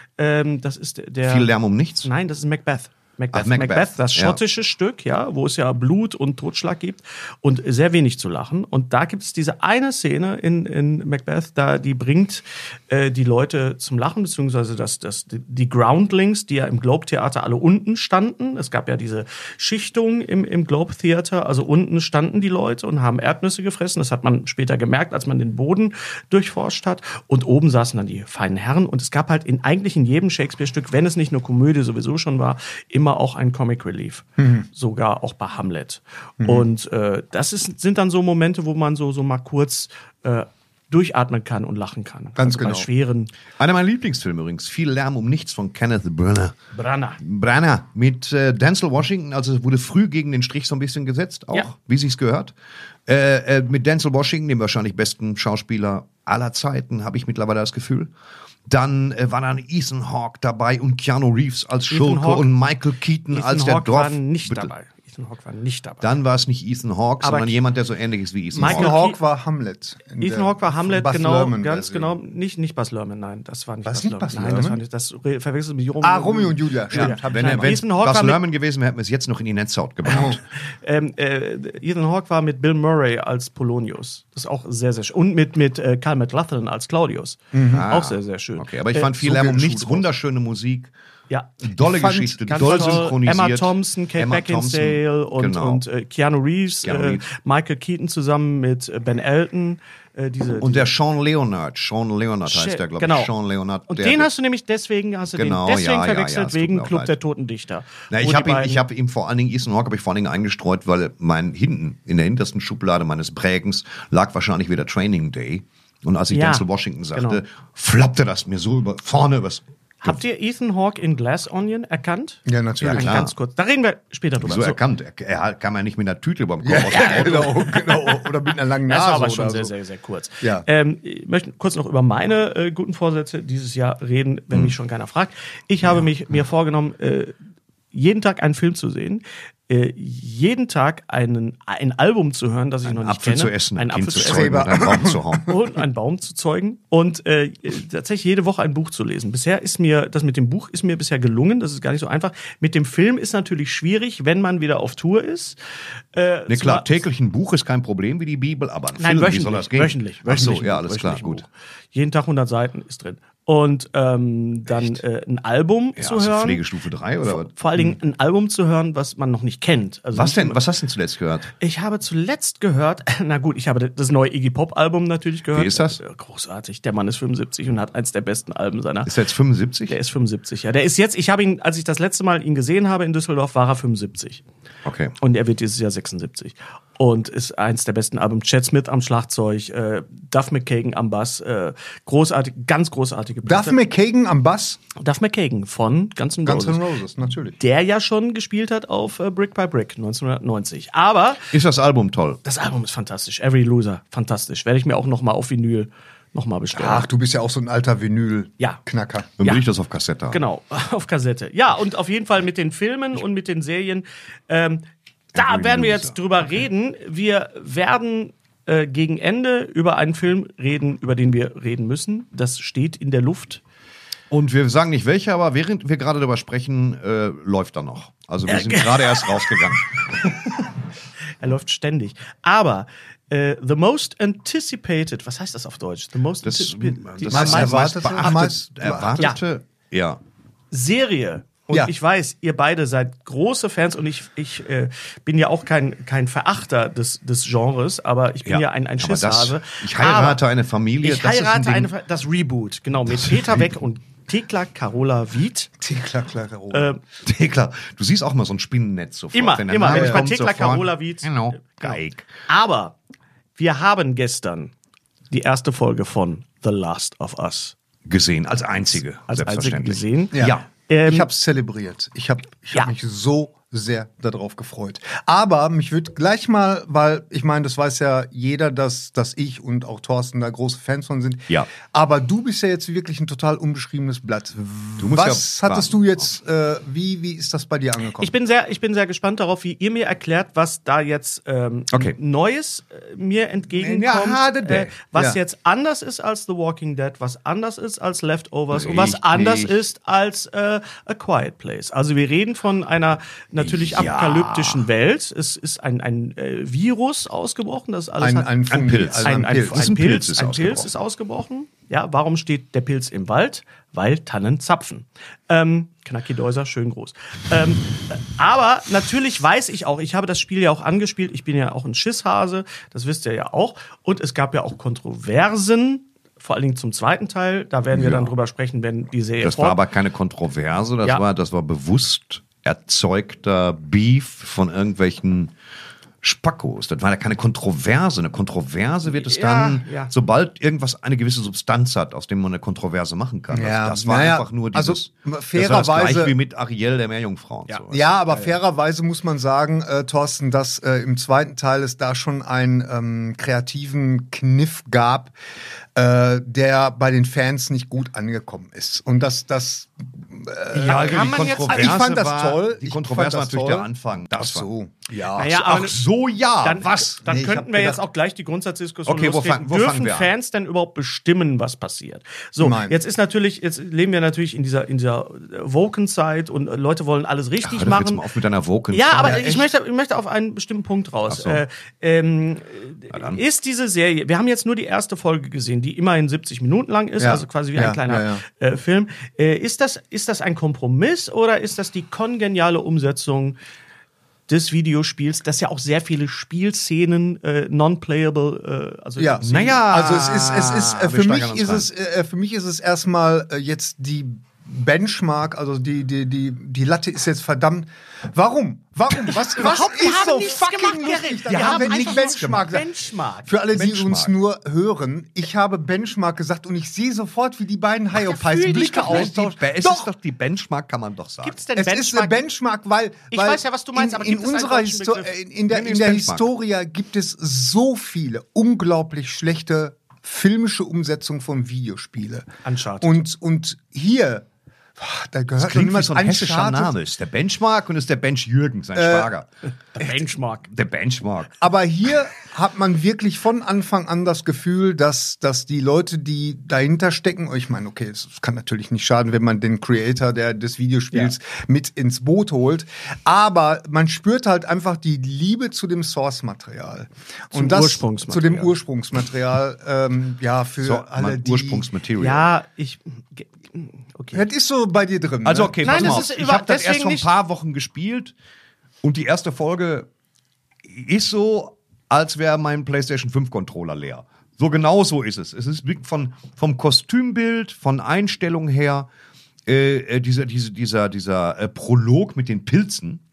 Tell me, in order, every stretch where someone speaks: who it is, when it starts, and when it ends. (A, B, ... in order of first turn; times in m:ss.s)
0:00.2-0:01.5 A
0:01.2-0:02.1 B
0:02.0-0:43.3 A
0:03.3-0:04.4 B
0:34.4-0:34.6 C
0:42.4-0:42.9 C
0:43.6-0:46.6 B
0:46.7-0:47.2 A
0:47.2-0:52.5 B
0:53.1-0:58.1 B
0:58.7-1:04.7 B
1:01.9-1:02.5 A
1:03.3-1:06.1 A
1:06.0-1:08.9 B
1:07.2-1:07.6 A
1:08.5-1:12.1 C
1:08.6-1:09.2 A
1:10.2-1:18.4 A
1:13.8-1:14.8 C
1:16.0-1:17.8 C
1:16.9-1:20.4 B
1:20.2-1:29.1 A
1:27.5-1:27.9 C
1:27.7-1:30.9 B
1:29.1-1:30.0 C
1:31.3-1:31.6 A
1:31.6-1:35.8 B
1:31.8-1:33.0 C
1:32.4-1:40.9 A
1:36.8-1:37.2 B
1:40.6-1:44.3 B
1:42.4-1:43.3 A
1:43.9-1:48.8 A
1:45.3-1:47.1 B
1:48.1-2:00.2 B
1:56.3-1:57.4 A
2:00.0-2:04.8 A
2:02.5-2:03.2 C
2:02.8-2:03.3 B
2:04.4-2:07.6 B
2:06.6-2:09.7 C
2:06.9-2:08.2 A
2:08.8-2:17.3 A
2:17.9-2:24.8 A
2:22.8-2:25.5 B
2:24.1-2:25.5 C
2:25.4-2:35.6 A
2:36.1-2:37.0 A
2:36.5-2:41.4 B
2:39.0-2:46.6 A
2:46.0-2:47.5 B
2:47.2-2:50.6 A
2:50.1-2:51.5 B
2:51.6-2:59.1 A
2:55.5-2:56.0 B
2:59.0-2:59.9 B
2:59.9-3:04.4 A
3:04.8-3:05.1 B
3:05.2-3:13.8 A
3:13.4-3:14.8 C
3:15.0-3:16.8 A
3:16.4-3:17.6 C
3:17.6-3:21.5 A
3:21.5-3:22.4 B
3:22.4-3:27.1 A
3:26.7-3:29.3 C
3:29.4-3:30.4 B
3:30.3-3:43.6 A
3:35.3-3:36.2 B
3:44.3-3:50.4 B
3:48.5-3:49.6 A
3:51.4-3:58.5 A
3:56.4-4:00.2 B
3:57.3-3:59.3 C
4:00.7-4:10.4 A
4:08.4-4:11.9 B
4:11.0-4:15.7 A
4:13.1-4:13.6 B
4:15.8-4:16.9 C
4:16.7-4:17.0 A
4:17.2-4:22.3 B
4:19.3-4:22.9 A
4:19.9-4:20.2 C
4:23.6-4:24.7 A
4:25.3-4:27.7 A
4:28.0-4:30.7 B
4:29.3-4:31.3 A
4:30.3-4:48.3 C
4:45.0-4:46.2 B
4:48.2-5:08.6 A
4:53.7-4:54.9 B
4:58.7-4:59.8 B
5:03.6-5:04.8 B
5:08.2-5:09.9 C
5:08.7-5:10.9 B
5:09.2-5:29.8 A
5:27.9-5:28.3 B
5:29.4-5:35.5 B
5:36.2-5:48.5 B
5:39.1-5:40.1 A
5:43.5-5:46.3 C
5:47.9-5:55.3 C
5:56.0-6:05.5 C
6:00.7-6:04.7 B
6:00.8-6:02.0 A
6:05.3-6:06.0 A
6:05.3-6:07.2 B
6:06.6-6:18.2 A
6:07.2-6:08.0 C
6:09.1-6:10.3 B
6:12.6-6:13.0 C
6:17.6-6:19.7 B
6:18.9-6:33.6 A
6:21.3-6:21.6 B
6:23.1-6:23.4 B
6:27.2-6:28.4 C
6:34.5-6:39.8 A
6:39.2-6:52.9 C
6:39.4-6:41.9 B
6:49.3-6:53.5 A
6:51.5-6:52.6 B
6:53.4-7:00.1 C
6:53.7-6:54.4 B
6:58.1-6:59.3 A
6:58.9-7:01.6 B
7:01.4-7:02.4 A
7:01.8-7:12.5 C
7:03.3-7:05.3 A
7:05.7-7:06.5 B
7:12.6-7:13.2 A
7:13.0-7:14.4 C
7:15.0-7:16.9 C
7:15.6-7:19.5 B
7:19.0-7:19.3 C
7:19.9-7:20.7 A
7:20.7-7:21.6 B
7:21.6-7:41.9 C
7:37.5-7:38.7 A
7:40.8-7:42.5 B
7:42.2-7:44.4 A
7:44.3-7:46.3 C
7:45.4-7:48.3 B
7:45.8-7:47.3 A
7:49.0-7:50.1 B
7:50.8-7:59.1 B
7:59.6-8:03.2 B